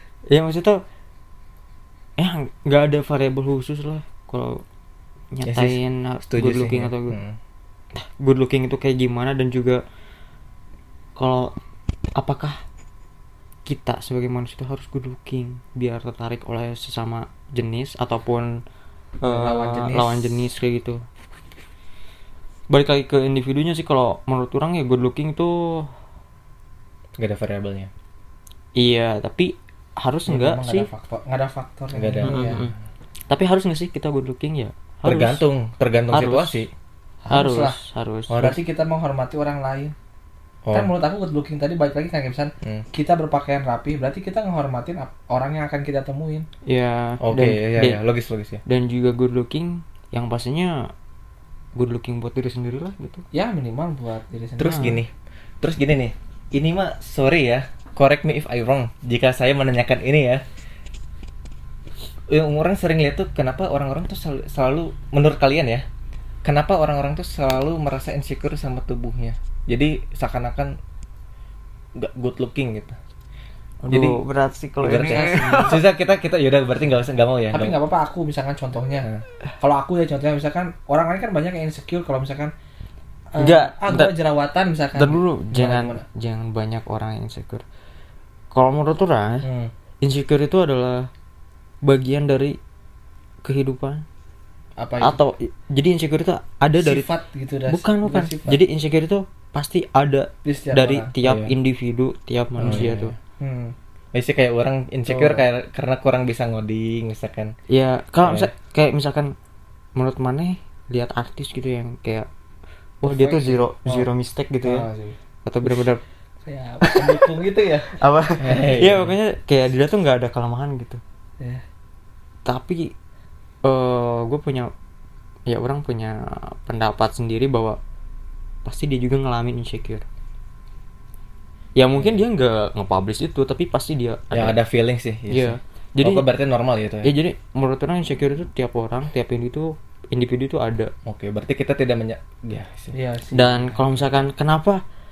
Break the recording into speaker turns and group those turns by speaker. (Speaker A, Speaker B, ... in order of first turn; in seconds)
Speaker A: 0.3-0.8, 2.2-4.6, 5.3-7.2, 8.0-9.8, 11.2-11.6, 12.2-12.6, 13.7-18.6, 19.2-21.0, 22.7-25.9, 28.8-30.9, 32.3-32.8, 33.3-35.4, 36.1-36.6, 37.3-38.6, 46.6-48.0, 48.7-50.9, 51.8-53.2, 73.8-75.8, 83.4-84.1, 85.0-87.7, 88.5-89.5, 90.0-91.1, 91.8-92.6, 93.4-94.0, 95.0-97.1, 97.7-103.1, 107.7-109.3, 110.0-112.3, 113.0-114.9, 115.4-116.0, 116.8-117.2, 117.9-121.0, 122.5-123.0, 123.6-124.7, 125.5-127.8, 128.7-130.1, 131.8-134.6, 135.3-136.2, 137.0-140.9, 143.3-144.8
Speaker B: 5.5-7.4, 27.2-27.9, 31.9-32.8, 35.0-36.7, 40.7-40.9, 47.2-48.6, 54.6-55.1, 55.6-60.4, 62.3-65.8, 66.5-70.8, 72.0-73.0, 73.9-74.2, 74.8-77.8, 101.2-101.5, 102.6-103.1, 104.1-107.5, 108.2-108.5, 116.8-119.1, 134.3-137.1, 141.1-142.9
Speaker C: 19.2-20.4, 30.3-32.6, 37.2-37.8, 38.3-40.0, 40.7-46.5, 53.3-55.0, 75.0-75.8, 77.5-79.1, 79.6-82.5, 83.3-86.0, 89.4-89.7, 94.8-95.2, 96.8-98.6, 100.5-101.1, 102.6-103.8, 105.1-105.4, 113.0-114.1, 114.6-115.2, 116.5-117.5, 142.9-143.9